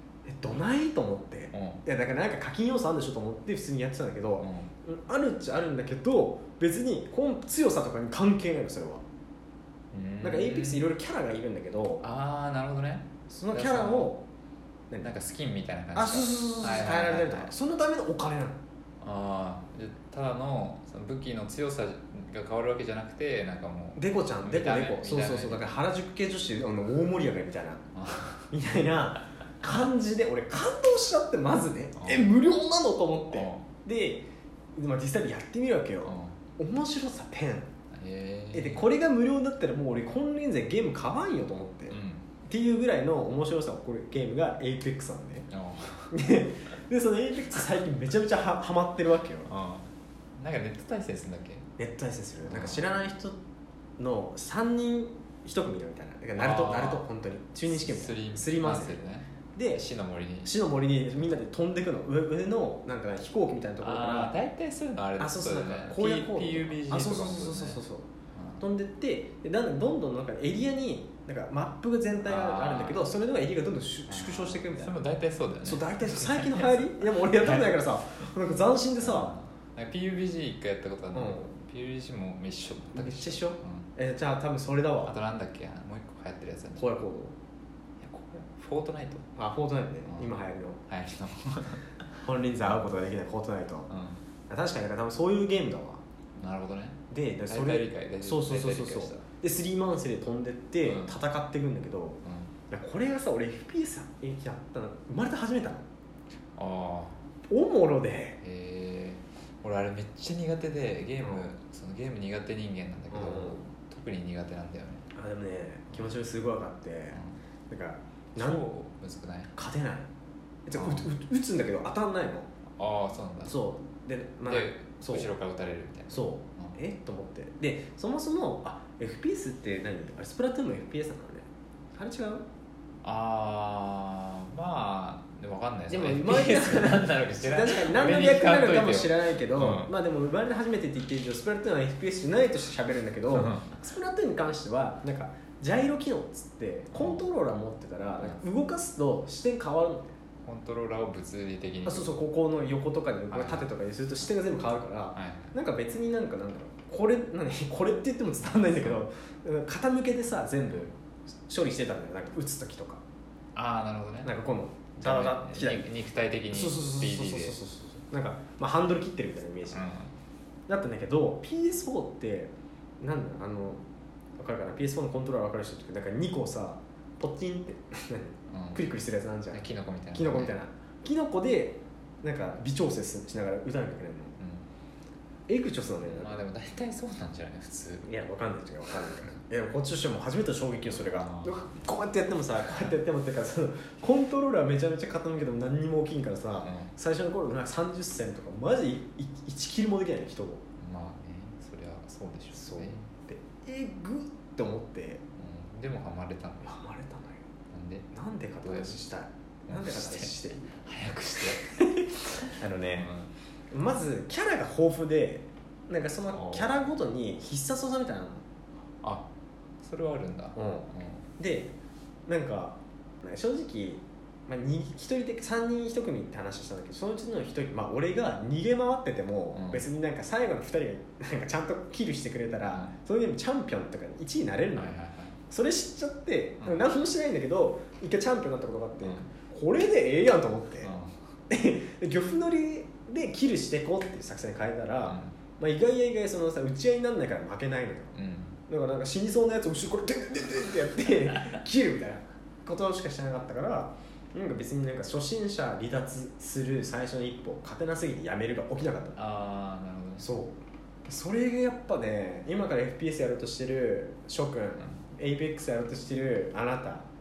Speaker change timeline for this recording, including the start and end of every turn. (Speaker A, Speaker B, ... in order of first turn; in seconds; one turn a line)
Speaker A: 0.2-9.0
Speaker B: 1.5-1.8
Speaker B: 4.4-4.7
Speaker B: 9.9-10.9
Speaker A: 10.2-12.0
Speaker B: 12.0-14.1
Speaker A: 13.3-14.2
Speaker B: 15.0-17.5
Speaker A: 15.9-18.6
Speaker B: 19.0-25.7
Speaker A: 24.0-27.9
Speaker B: 27.9-28.5
Speaker A: 28.5-37.7
Speaker B: 32.0-32.4
Speaker B: 33.3-33.7
Speaker B: 36.0-36.4
Speaker B: 37.9-38.9
Speaker A: 38.5-45.5
Speaker B: 41.9-42.2
Speaker B: 45.5-46.2
Speaker A: 46.1-49.5
Speaker B: 49.5-51.7
Speaker A: 51.8-53.4
Speaker B: 52.4-52.9
Speaker A: 54.0-59.0
Speaker B: 56.4-57.0
Speaker B: 57.7-60.5
Speaker A: 59.5-59.8
Speaker A: 60.4-64.3
Speaker B: 63.8-67.8
Speaker A: 65.2-68.1
Speaker B: 68.3-68.6
Speaker A: 68.6-75.0
Speaker B: 72.2-73.1
Speaker B: 74.1-77.8
Speaker A: 75.6-79.3
Speaker B: 79.0-83.9
Speaker A: 81.2-81.5
Speaker A: 83.0-85.2
Speaker B: 85.1-86.9
Speaker A: 86.8-87.3
Speaker B: 88.0-89.3
Speaker A: 89.4-90.8
Speaker B: 90.1-90.4
Speaker B: 90.9-92.2
Speaker A: 92.2-93.9
Speaker B: 93.9-94.2
Speaker A: 94.5-96.0
Speaker B: 96.4-99.2
Speaker A: 97.1-105.8
Speaker B: 100.8-101.2
Speaker B: 102.2-102.5
Speaker B: 106.6-107.2
Speaker A: 107.5-108.4
Speaker B: 108.4-115.1
Speaker A: 111.2-111.5
Speaker A: 113.1-113.6
Speaker A: 115.1-118.7
Speaker B: 118.4-119.5
Speaker A: 119.5-120.1
Speaker A: 120.7-122.5
Speaker B: 120.7-121.1
Speaker B: 122.8-123.6
Speaker A: 123.5-125.3
Speaker B: 124.5-126.8
Speaker A: 126.1-132.4
Speaker B: 133.0-139.9
Speaker A: 135.9-150.2
Speaker B: 143.3-143.7
Speaker B: 146.9-147.2
Speaker B: 150.4-152.2
Speaker A: 151.9-160.9
Speaker B: 153.3-153.7
Speaker B: 155.2-155.6
Speaker A: 161.5-163.0
Speaker B: 163.6-164.3
Speaker A: 164.2-165.9
Speaker B: 165.0-167.6
Speaker A: 166.5-169.9
Speaker B: 169.7-170.1
Speaker A: 170.7-173.8
Speaker A: 174.4-184.4
Speaker B: 178.5-178.8
Speaker B: 179.5-180.5
Speaker B: 184.4-184.7
Speaker A: 185.5-186.4
Speaker B: 186.0-188.1
Speaker A: 188.1-200.6
Speaker B: 190.9-191.6
Speaker B: 196.6-196.9
Speaker B: 200.8-203.1
Speaker A: 202.5-205.2
Speaker B: 205.4-206.8
Speaker A: 206.6-207.4
Speaker B: 207.7-208.1
Speaker A: 208.1-210.8
Speaker B: 208.6-209.0
Speaker B: 209.7-213.3
Speaker A: 211.3-213.1
Speaker A: 213.7-218.4
Speaker B: 216.3-216.7
Speaker B: 219.0-219.3
Speaker B: 219.8-221.3
Speaker A: 220.6-221.7
Speaker A: 222.3-240.9
Speaker B: 229.5-229.8
Speaker B: 232.7-232.9
Speaker B: 234.8-235.4
Speaker B: 236.6-236.9
Speaker B: 239.0-239.3
Speaker B: 240.8-241.3
Speaker A: 241.5-248.2
Speaker B: 245.0-245.3
Speaker B: 248.2-248.6
Speaker A: 248.7-259.2
Speaker B: 259.2-260.3
Speaker A: 260.2-260.6
Speaker A: 261.1-267.1